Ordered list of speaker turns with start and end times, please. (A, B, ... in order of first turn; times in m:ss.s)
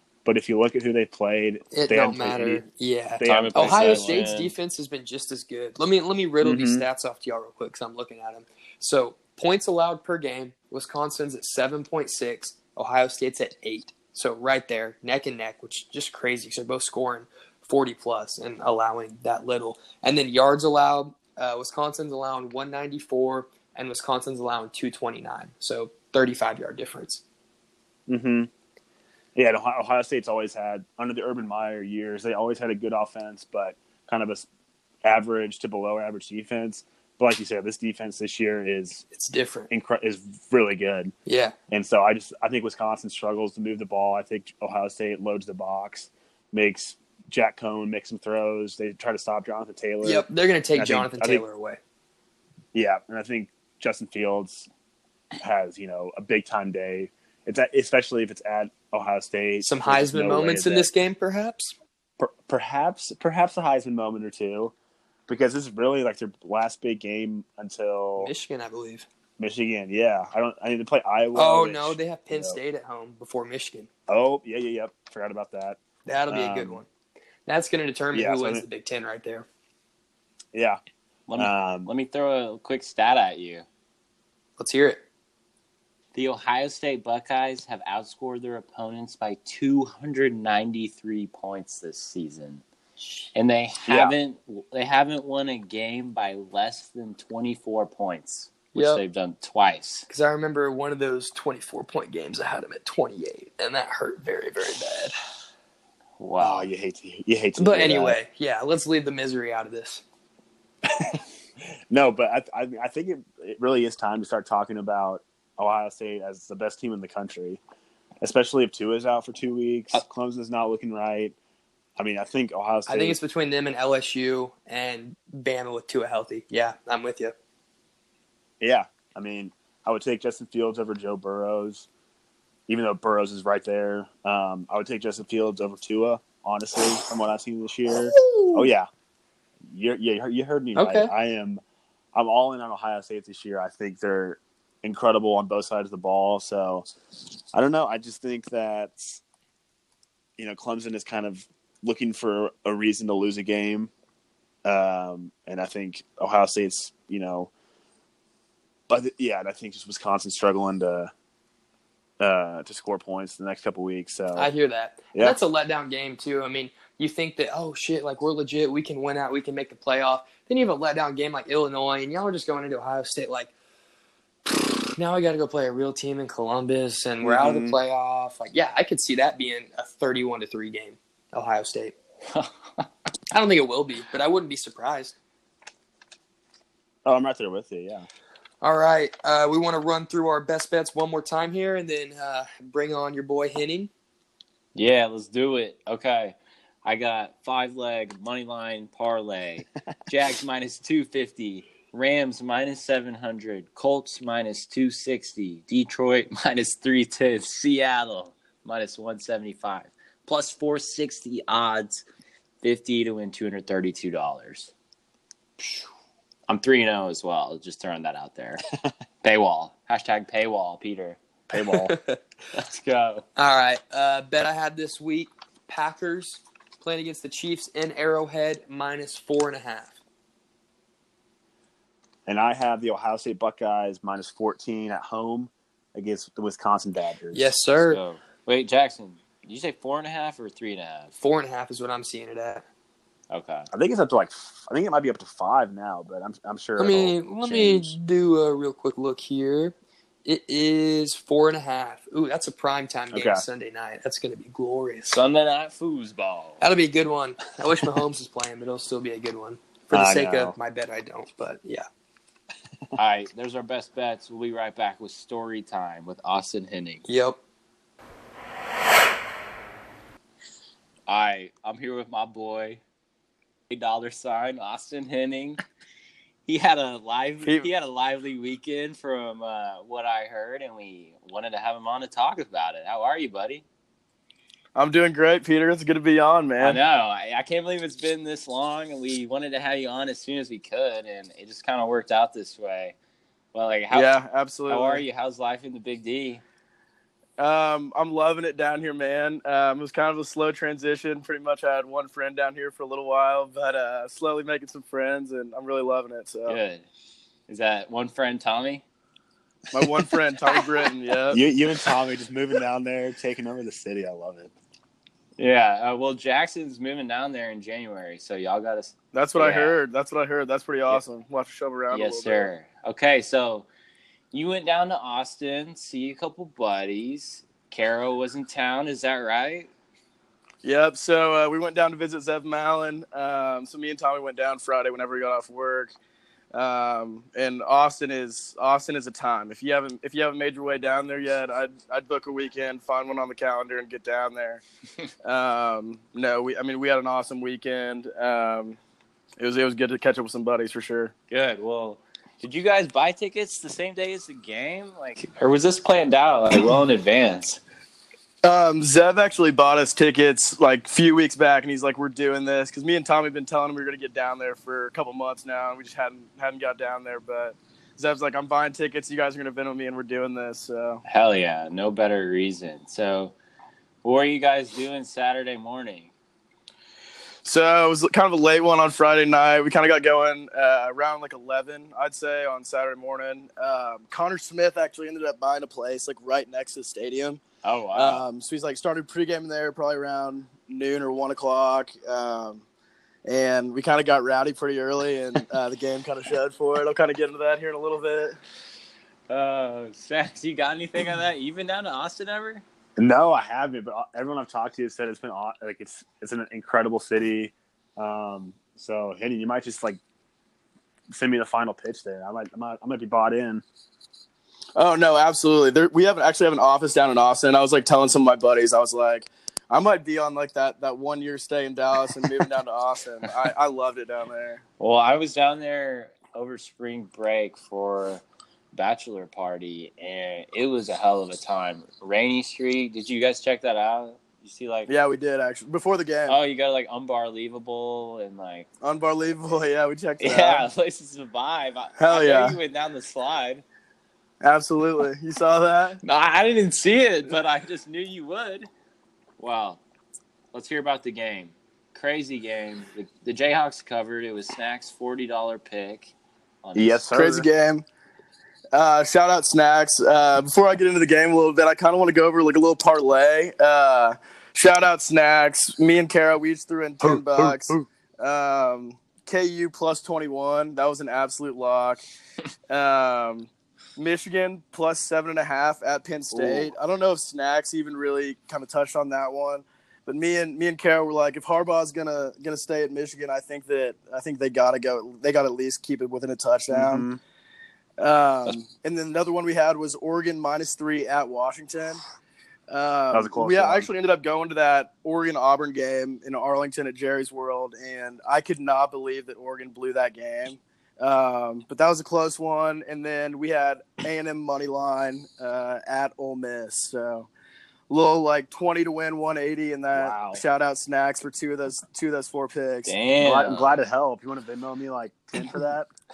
0:00.2-0:02.6 A
0:01.7-0:27.2 B
0:03.2-0:04.2 A
0:03.2-0:04.5 C
0:06.4-0:06.9 A
0:28.1-0:28.5 A
0:29.4-0:34.5 A
0:35.0-0:39.1 A
0:39.1-0:39.7 B
0:39.7-0:41.1 A
0:41.3-0:41.6 B
0:41.7-0:51.4 A
0:50.0-0:51.8 B
0:52.7-0:54.7 A
0:55.4-1:00.9 A
0:59.6-1:01.8 B
1:02.2-1:04.7 A
1:05.3-1:08.3 A
1:08.2-1:09.1 B
1:09.4-1:12.6 A
1:11.3-1:13.9 B
1:14.1-1:16.8 A
1:16.1-1:16.9 B
1:17.5-1:19.5 B
1:18.1-1:18.6 A
1:20.5-1:20.8 A
1:21.3-1:23.7 C
1:21.4-1:21.9 A
1:24.6-1:25.0 B
1:26.1-1:32.6 C
1:33.4-1:40.1 C
1:33.9-1:34.2 A
1:38.7-1:39.0 B
1:40.1-1:45.1 B
1:46.2-1:46.7 C
1:46.4-1:48.2 A
1:47.6-1:50.0 B
1:50.9-1:51.2 A
1:51.9-1:57.6 A
1:58.2-2:01.4 A
2:02.0-2:03.2 A
2:02.9-2:07.4 B
2:08.6-2:11.9 A
2:12.7-2:18.9 A
2:17.9-2:18.7 B
2:19.7-2:21.6 A
2:20.8-2:21.1 B
2:22.1-2:26.9 A
2:27.5-2:29.2 A
2:30.4-2:33.9 A
2:34.6-2:37.5 A
2:38.9-2:41.1 A
2:42.2-2:44.5 A
2:44.4-2:53.5 B
2:45.1-2:45.4 A
2:55.0-3:02.0 B
2:57.2-2:57.8 A
3:02.3-3:02.9 C
3:03.3-3:05.2 B
3:07.0-3:08.1 A
3:08.6-3:13.9 B
3:14.8-3:32.0 C
3:32.6-3:34.7 C
3:36.5-3:38.6 C
3:39.2-3:41.2 C
3:41.5-3:41.9 A
3:41.7-3:42.2 B
3:42.5-3:43.2 C
3:43.4-3:50.0 B
3:52.3-3:57.5 A
3:57.3-3:58.0 B
3:57.9-4:01.2 C
4:01.2-4:02.6 B
4:03.3-4:03.7 C
4:03.7-4:07.2 A
4:06.8-4:15.2 B
4:07.4-4:07.9 C
4:13.1-4:13.4 A
4:15.1-4:16.6 C
4:16.6-4:21.9 B
4:19.9-4:20.6 A
4:23.0-4:27.0 C
4:27.1-4:27.4 B
4:31.1-4:32.8 C
4:33.7-4:35.6 C
4:36.5-4:43.6 C
4:44.8-4:46.8 D
4:46.6-4:53.0 C
4:53.5-4:54.1 C
4:53.9-4:55.0 D
4:54.7-4:56.4 C
4:57.4-5:06.6 D
5:06.5-5:06.9 C
5:07.5-5:08.8 C
5:09.7-5:11.4 D
5:11.3-5:14.5 A
5:15.4-5:19.8 C
5:19.1-5:22.5 D
5:21.9-5:23.7 C
5:24.3-5:29.7 C
5:30.6-5:36.0 D
5:36.5-5:44.6 D
5:45.2-5:48.8 D
5:49.4-5:51.1 D
5:51.3-5:57.6 C
5:58.4-6:11.0 D
6:11.0-6:13.3 C
6:14.0-6:16.1 C
6:17.4-6:27.4 D
6:27.6-6:28.2 C
6:28.0-6:32.6 D
6:33.2-6:38.4 D
6:39.3-6:42.6 C
6:43.0-6:50.0 A
6:51.1-6:53.6 A
6:54.8-7:04.6 D
7:04.8-7:08.2 C
7:08.7-7:14.9 C
7:14.9-7:16.4 D
7:16.3-7:18.7 C
7:18.8-7:20.7 D
7:20.2-7:23.6 C
7:22.0-7:22.6 D
7:24.4-7:26.0 D
7:26.0-7:28.7 C
7:29.4-7:29.8 C
7:30.5-7:36.1 C
7:36.6-7:37.0 C
7:36.8-7:37.5 A
7:37.1-7:37.8 D
7:38.7-7:52.0 D
7:47.0-7:47.9 A
7:52.7-8:07.1 D
7:56.3-7:56.7 A
8:06.7-8:07.2 A
8:08.0-8:12.0 D
8:12.7-8:27.3 D
8:13.1-8:13.9 A
8:27.9-8:33.0 D
8:29.9-8:30.4 A
8:32.9-8:33.8 C
8:33.2-8:35.9 A